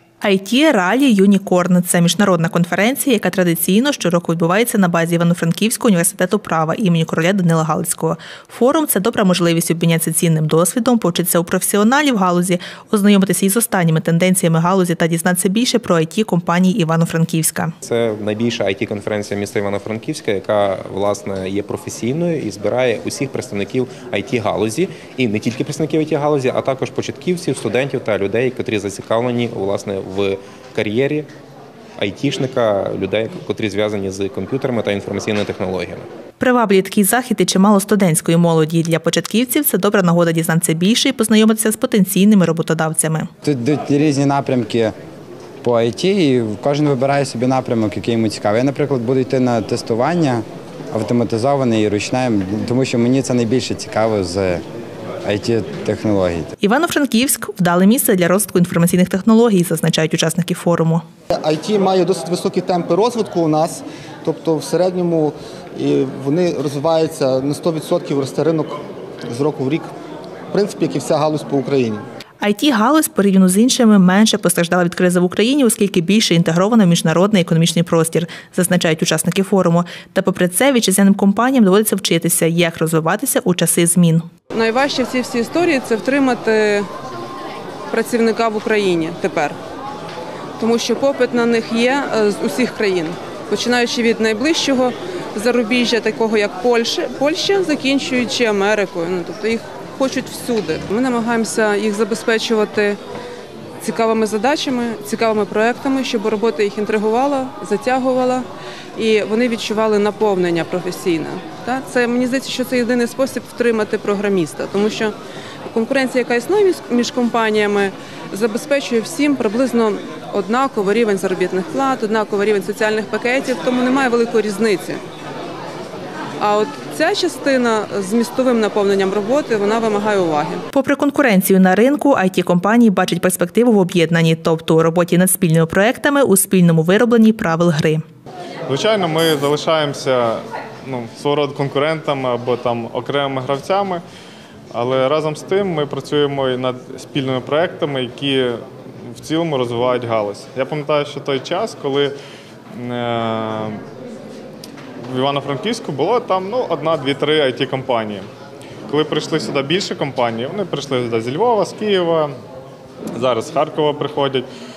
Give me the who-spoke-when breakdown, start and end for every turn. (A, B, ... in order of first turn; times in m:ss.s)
0:00.2-0:17.7 A
0:17.8-0:31.3 B
0:32.0-0:36.0 B
0:36.4-0:43.3 A
0:43.4-0:44.9 C
0:45.6-0:54.6 C
0:55.2-0:56.5 C
0:56.6-1:01.0 A
1:01.3-1:08.8 D
1:09.3-1:09.9 D
1:10.5-1:12.0 D
1:12.4-1:24.3 A
1:24.5-1:26.9 E
1:27.9-1:29.6 E
1:30.6-1:43.0 E
1:43.8-1:55.1 E
1:55.7-2:05.0 E
2:06.4-2:10.6 E
2:10.7-2:18.0 A
2:18.7-2:24.0 F
2:24.7-2:28.6 F
2:29.2-2:32.1 F
2:32.7-2:33.8 F
2:35.1-2:38.3 F
2:38.9-2:42.3 F
2:43.1-2:44.4 F